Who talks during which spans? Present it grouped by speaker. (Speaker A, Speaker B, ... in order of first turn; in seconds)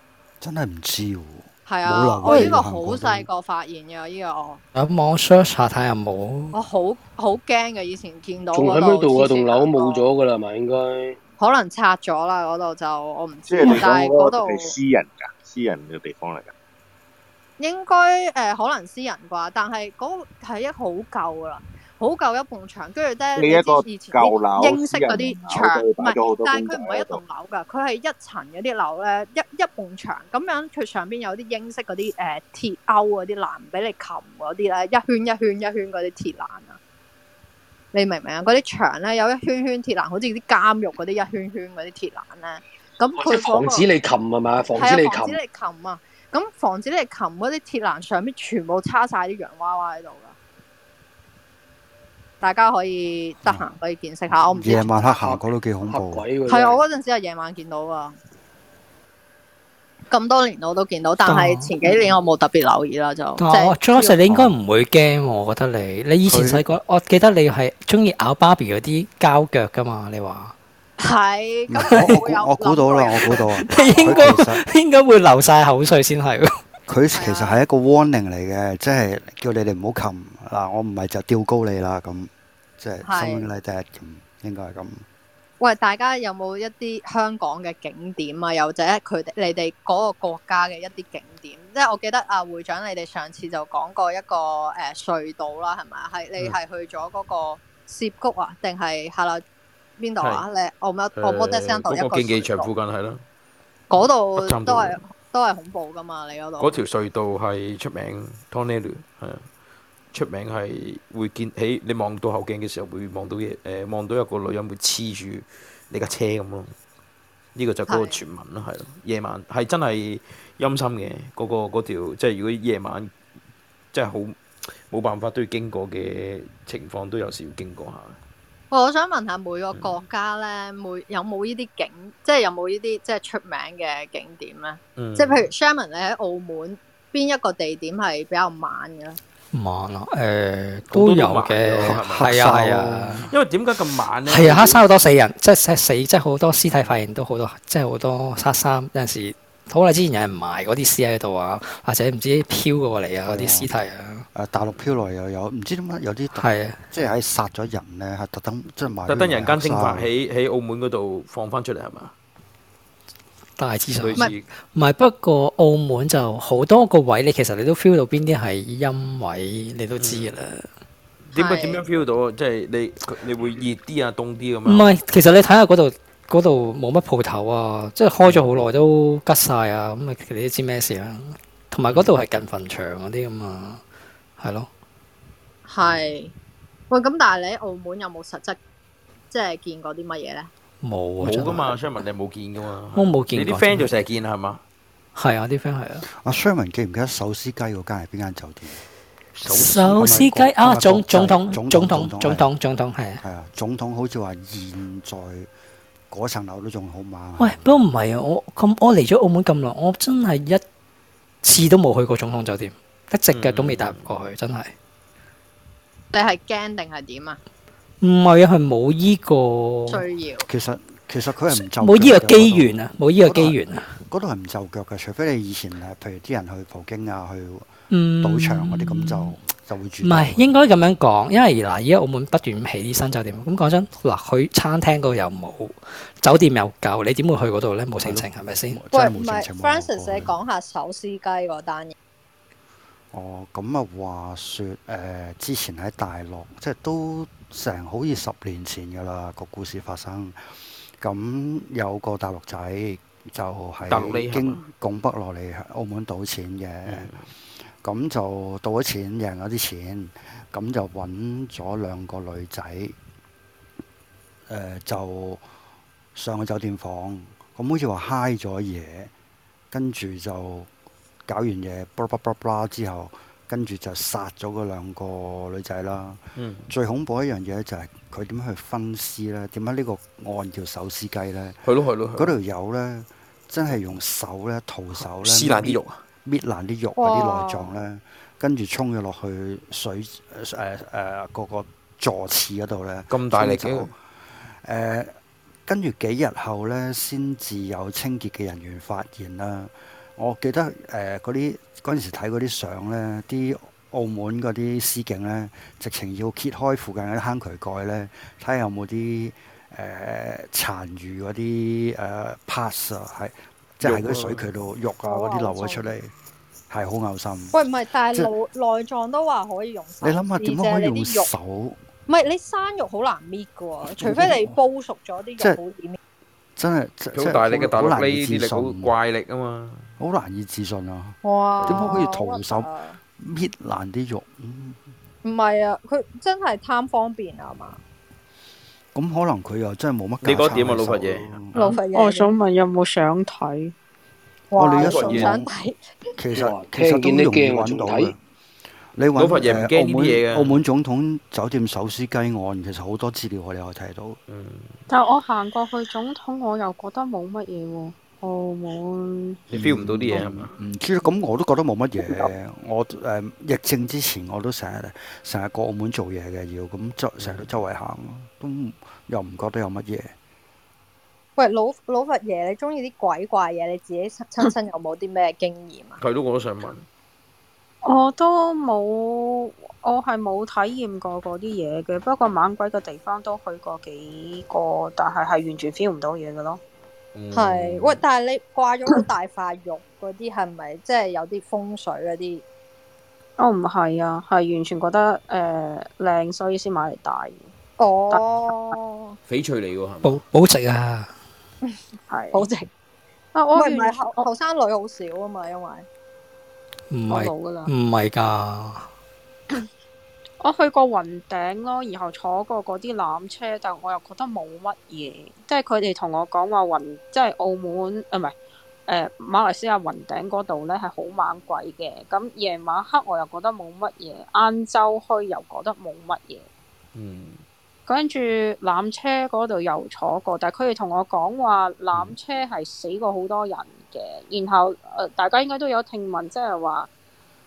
Speaker A: 0.4-3.3, 54.5-56.2, 64.3-64.5, 66.2-66.7, 71.7-74.6, 76.9-85.0, 141.8-143.2, 153.2-153.7, 154.3-160.1, 196.0-198.8, 199.6-202.5, 203.2-205.5, 206.1-207.7, 220.4-230.6, 238.0-240.3, 243.1-250.4, 251.0-257.1, 257.8-262.9, 264.5-265.4, 266.1-269.1, 269.7-270.7, 271.3-281.6, 282.1-293.9, 294.6-295.1, 295.6-316.1, 316.7-317.5, 320.0-321.8, 324.0-324.6, 326.6-328.9, 330.0-334.8, 338.9-341.7, 344.6-345.5, 346.2-348.2, 348.9-354.2, 359.5-370.1
Speaker B: 1.6-4.6, 6.5-10.1, 11.4-14.7, 17.6-36.8, 37.9-43.9, 44.8-50.3, 52.4-55.0, 56.5-58.1, 60.1-64.2, 71.0-74.3, 77.1-77.6, 83.0-83.5, 85.6-99.4, 100.0-102.7, 103.9-106.7, 117.9-118.2, 128.7-139.2, 171.3-171.8, 185.7-186.3, 186.9-188.6, 189.3-190.5, 216.1-217.4, 219.9-220.4, 238.9-241.9, 287.0-287.7, 315.0-315.9, 317.5-321.3, 322.1-326.0, 331.2-333.0, 335.2-337.8, 341.5-342.3, 344.5-345.8, 371.4-376.0, 387.3-392.4, 397.8-399.1, 402.3-402.7, 403.5-405.9
Speaker C: 4.7-6.5, 61.2-61.7, 63.4-70.5, 71.9-72.2, 73.3-76.5, 139.5-143.3, 144.2-154.3, 156.3-156.9, 163.6-170.7, 174.7-183.8, 184.4-184.7, 190.8-191.8, 192.9-193.9, 195.1-196.1, 199.4-203.2, 207.4-210.6, 211.4-214.7, 218.0-220.0, 221.5-224.0, 227.9-229.4, 230.0-238.8, 400.0-401.1, 406.9-408.9
Speaker D: 8.5-11.2, 43.1-45.4, 54.9-56.8, 346.3-348.1
Speaker E: 13.5-16.5, 23.4-27.2
Speaker F: 100.2-100.4, 101.2-103.2, 103.9-105.0, 106.6-109.5, 110.1-116.7, 117.5-123.1, 123.9-128.2, 134.9-135.5, 140.9-142.5, 143.3-144.8, 159.1-162.1, 164.0-164.5, 170.0-170.3, 171.3-174.9, 178.2-178.6, 191.2-194.6, 213.3-214.2, 253.9-254.7, 256.8-257.3, 276.3-276.7, 281.6-282.4, 284.9-286.0, 293.1-293.9, 313.8-314.5, 327.1-329.9, 331.6-332.0, 340.2-341.4, 344.8-345.4, 349.1-350.6, 354.3-354.8, 359.5-360.5, 367.2-367.5, 376.0-376.9, 387.1-388.0, 399.2-400.2, 426.9-427.4
Speaker G: 341.9-343.7, 354.9-359.4, 377.8-386.6, 393.4-397.5, 402.1-402.5, 403.3-404.2, 407.1-407.7, 410.4-418.3, 418.9-426.5, 427.9-436.9